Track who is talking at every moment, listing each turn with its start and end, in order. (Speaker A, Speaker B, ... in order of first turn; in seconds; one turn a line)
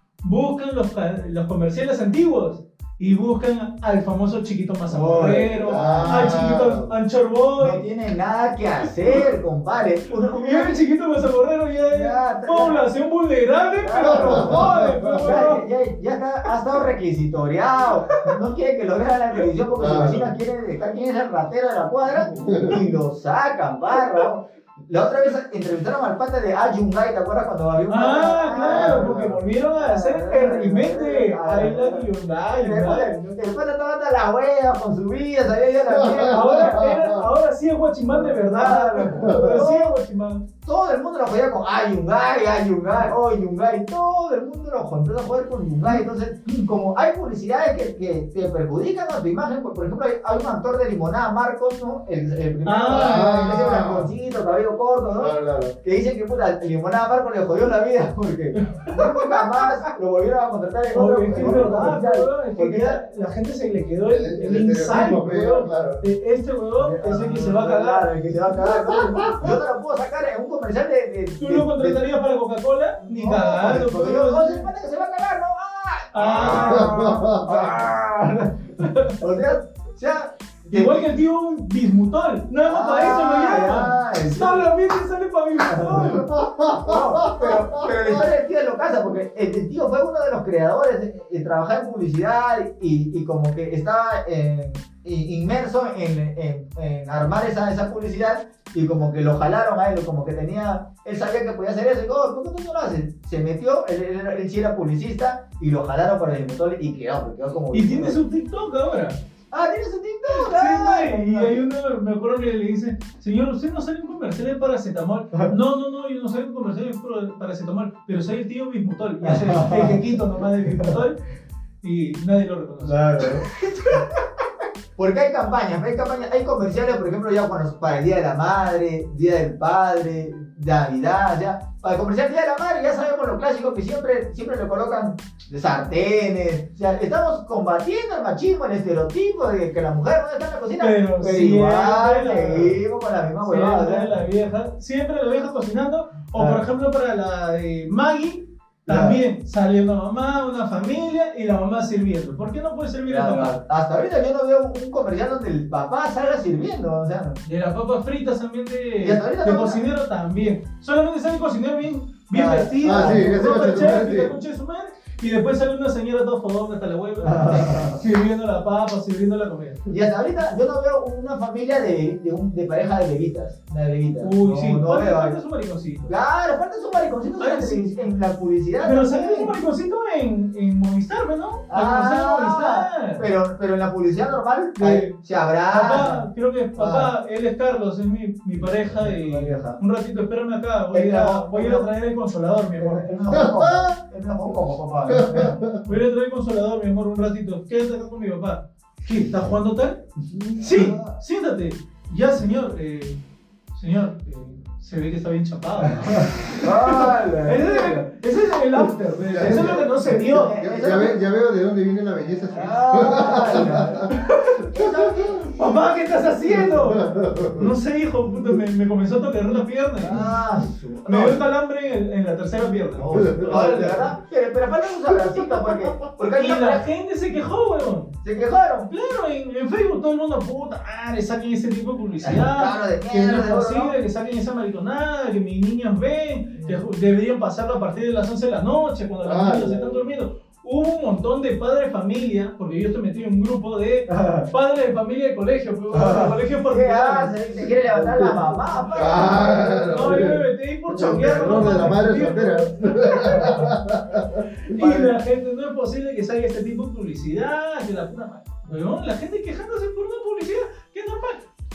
Speaker A: 0.2-7.8
Speaker B: 4.9-6.5
Speaker C: 5.6-6.9
Speaker B: 7.6-10.8
Speaker A: 10.2-15.6
Speaker B: 11.9-12.9
Speaker B: 13.6-29.1
Speaker C: 14.0-15.3
Speaker C: 19.8-20.4
Speaker A: 22.2-22.7
Speaker C: 22.4-22.8
Speaker A: 27.9-33.1
Speaker C: 28.7-29.4
Speaker B: 29.8-36.9
Speaker C: 35.9-37.3
Speaker A: 36.3-40.4
Speaker B: 38.1-39.9
Speaker C: 39.1-39.6
Speaker B: 40.6-63.0
Speaker A: 52.7-53.6
Speaker C: 52.9-54.1
Speaker C: 55.2-55.8
Speaker A: 58.6-59.8
Speaker A: 60.9-68.0
Speaker C: 64.1-66.0
Speaker B: 66.8-72.0
Speaker C: 68.7-69.5
Speaker A: 71.4-74.6
Speaker B: 73.0-81.0
Speaker A: 76.1-76.9
Speaker C: 76.4-77.8
Speaker A: 78.8-79.2
Speaker A: 80.7-86.3
Speaker B: 82.7-84.7
Speaker B: 85.7-108.2
Speaker C: 86.2-88.3
Speaker A: 107.7-109.2
Speaker B: 109.5-111.7
Speaker A: 110.3-121.2
Speaker B: 119.2-121.0
Speaker A: 121.8-124.0
Speaker B: 122.8-124.1
Speaker B: 125.0-144.1
Speaker A: 140.8-142.8
Speaker A: 143.4-153.6
Speaker B: 146.3-146.6
Speaker B: 148.9-149.2
Speaker B: 153.1-157.4
Speaker A: 157.4-169.8
Speaker B: 159.0-159.8
Speaker B: 162.3-163.3
Speaker C: 162.8-164.3
Speaker B: 167.2-168.0
Speaker B: 169.9-175.4
Speaker A: 174.2-176.1
Speaker B: 176.1-179.5
Speaker A: 177.4-177.8
Speaker A: 178.8-183.3
Speaker B: 181.7-186.3
Speaker A: 184.8-185.1
Speaker A: 185.7-193.1
Speaker B: 186.8-187.1
Speaker B: 188.9-189.8
Speaker B: 190.9-191.9
Speaker B: 192.8-195.6
Speaker C: 193.3-194.0
Speaker C: 195.1-195.8
Speaker A: 195.8-200.0
Speaker B: 200.2-201.2
Speaker C: 200.3-200.8
Speaker A: 200.6-203.2
Speaker A: 203.7-210.5
Speaker B: 205.8-208.1
Speaker C: 209.3-214.1
Speaker B: 209.6-211.2
Speaker B: 212.5-214.2
Speaker A: 214.1-217.0
Speaker B: 214.7-215.6
Speaker C: 216.5-217.7
Speaker A: 217.6-220.3
Speaker B: 220.0-221.4
Speaker A: 221.1-224.2
Speaker B: 222.8-226.8
Speaker C: 223.1-223.9
Speaker A: 225.1-228.1
Speaker B: 228.2-228.9
Speaker A: 228.9-247.3
Speaker B: 232.2-234.0
Speaker C: 239.2-240.1
Speaker B: 244.1-244.5
Speaker B: 245.9-250.3
Speaker C: 247.8-254.5
Speaker A: 248.5-253.6
Speaker B: 253.2-253.7
Speaker A: 254.7-261.4
Speaker B: 254.8-255.1